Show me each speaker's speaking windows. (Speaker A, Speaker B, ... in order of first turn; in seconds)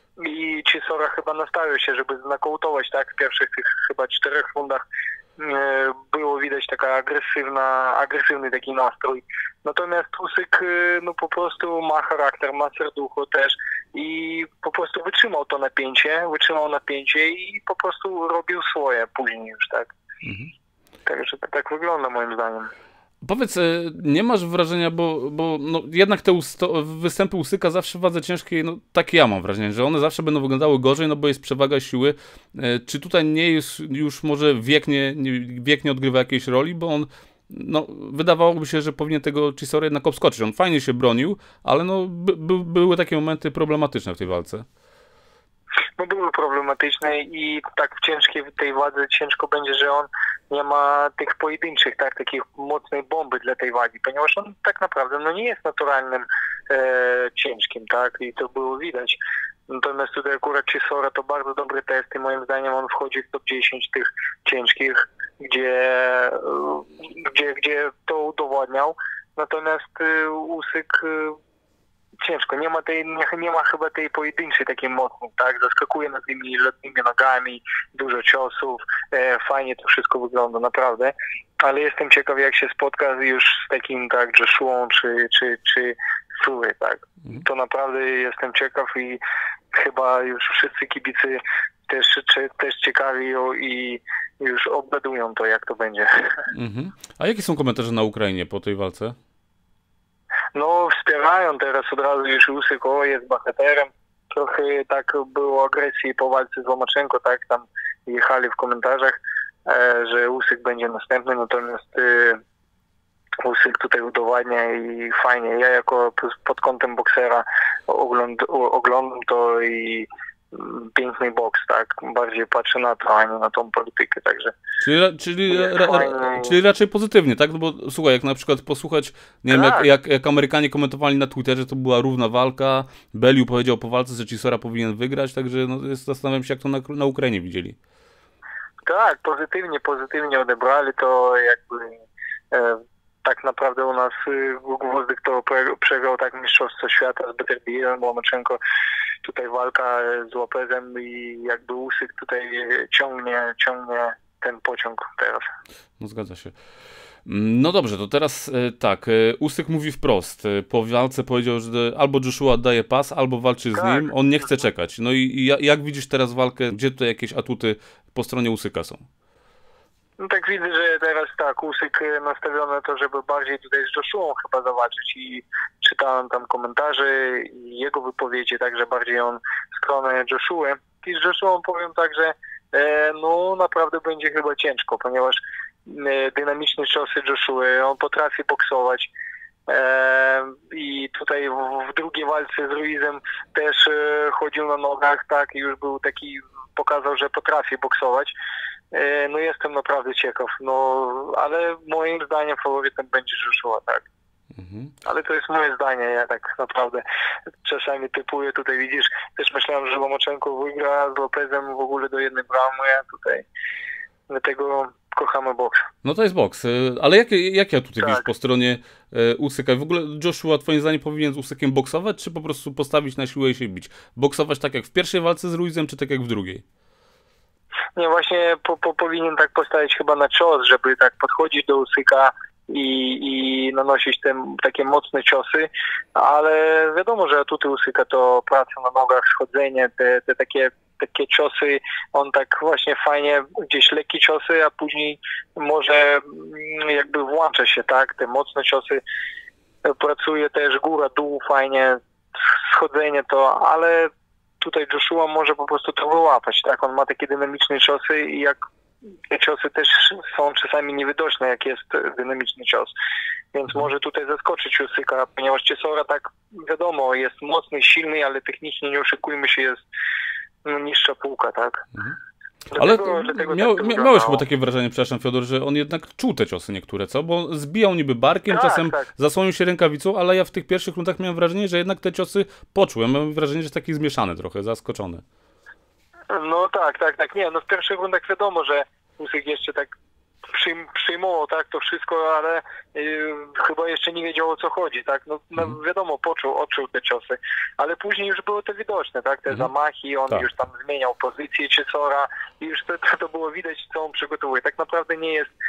Speaker A: 0.2-4.8, 5.4-19.9, 21.1-22.7, 46.0-71.4, 72.2-89.2, 89.7-96.5, 100.5-112.4, 113.4-124.5, 125.5-126.6, 129.5-129.9, 138.8-148.6, 149.2-155.5, 163.7-164.1, 170.2-189.1, 189.7-198.3, 198.9-204.1, 205.0-207.0, 207.6-213.4, 214.3-215.9, 218.0-218.2, 227.9-249.0, 249.8-254.1, 254.6-258.6, 259.3-262.9, 263.5-269.8, 270.6-271.8, 272.7-274.4, 278.5-279.1, 286.3-289.9, 290.5-305.5
Speaker B: 20.2-20.5, 23.2-44.6, 96.5-99.1, 124.8-137.8, 156.0-156.5, 157.2-169.1, 204.6-204.9, 216.0-226.6, 272.7-285.2